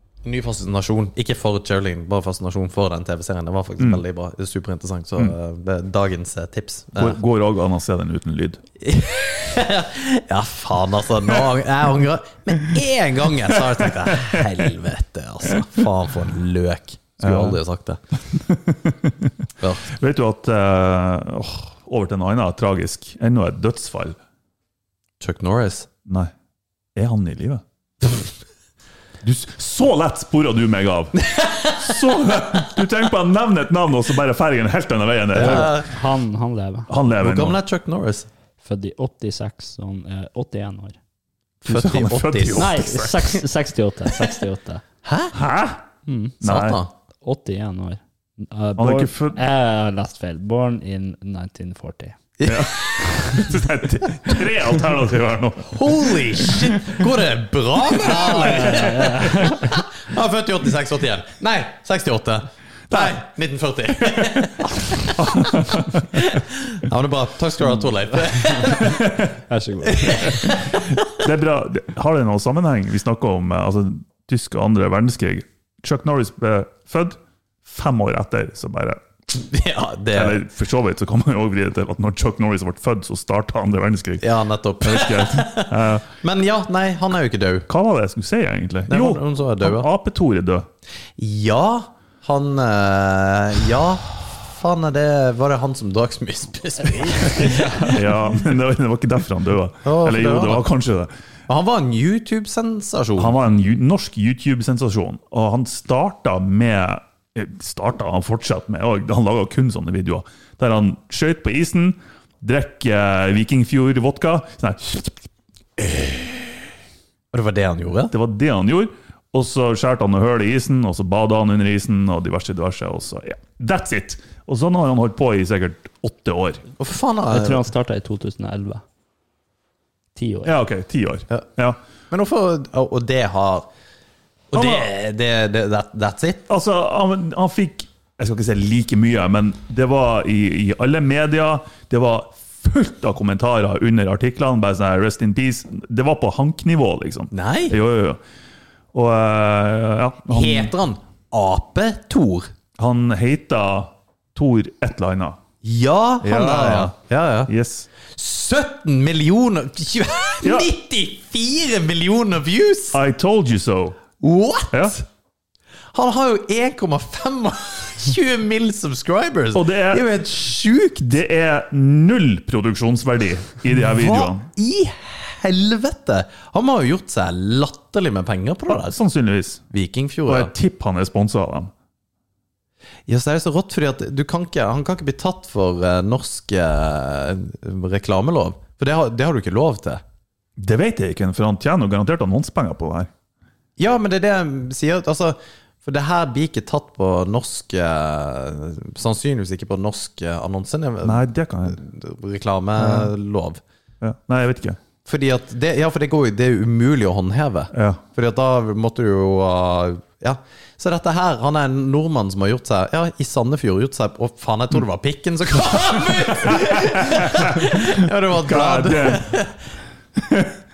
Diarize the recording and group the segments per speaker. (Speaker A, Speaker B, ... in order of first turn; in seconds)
Speaker A: 0.2-7.2, 8.8-18.0, 25.2-25.9, 31.2-32.0, 35.3-36.0, 37.2-38.3, 41.6-43.1, 45.0-45.4, 46.4-46.9, 52.4-53.2, 55.7-69.0, 69.8-71.1, 79.3-80.4, 84.2-87.7, 88.9-89.9, 91.2-98.0, 99.8-100.6, 101.5-103.3, 117.3-118.1, 126.8-127.6, 132.1-133.7, 134.5-136.4, 147.3-147.7, 150.3-152.5, 155.6-157.5, 158.1-163.0, 164.2-165.0, 165.9-171.2, 173.9-178.9, 179.7-180.5, 183.1-190.0, 193.8-203.6, 205.0-219.6
Speaker B: 7.0-8.6, 13.7-14.4, 17.2-17.6, 18.3-19.3, 19.8-24.1, 26.9-27.6, 29.2-35.8, 36.9-37.6, 41.7-43.3, 45.3-45.8, 46.4-46.8, 48.8-49.4, 52.5-57.0, 58.0-59.3, 62.9-63.1, 65.2-66.2, 68.8-69.3, 71.1-79.0, 80.1-84.2, 84.8-86.0, 87.7-90.7, 97.9-101.1, 103.2-115.2, 115.8-116.5, 118.1-126.6, 130.4-131.8, 134.5-134.9, 136.5-148.2, 148.9-150.7, 152.8-155.4, 156.2-156.9, 157.5-157.9, 160.4-160.7, 162.9-164.0, 169.5-170.1, 171.0-174.5, 178.7-179.6, 180.3-181.7, 190.6-193.1, 201.0-201.8, 202.8-203.1, 204.0-204.8, 207.7-208.0, 215.7-219.4, 220.2-220.5
Speaker C: 35.4-36.9, 38.6-41.0, 42.5-44.8, 46.0-46.4, 47.2-52.2, 58.3-59.6, 69.5-70.5, 97.1-98.0, 127.3-128.8, 130.1-130.5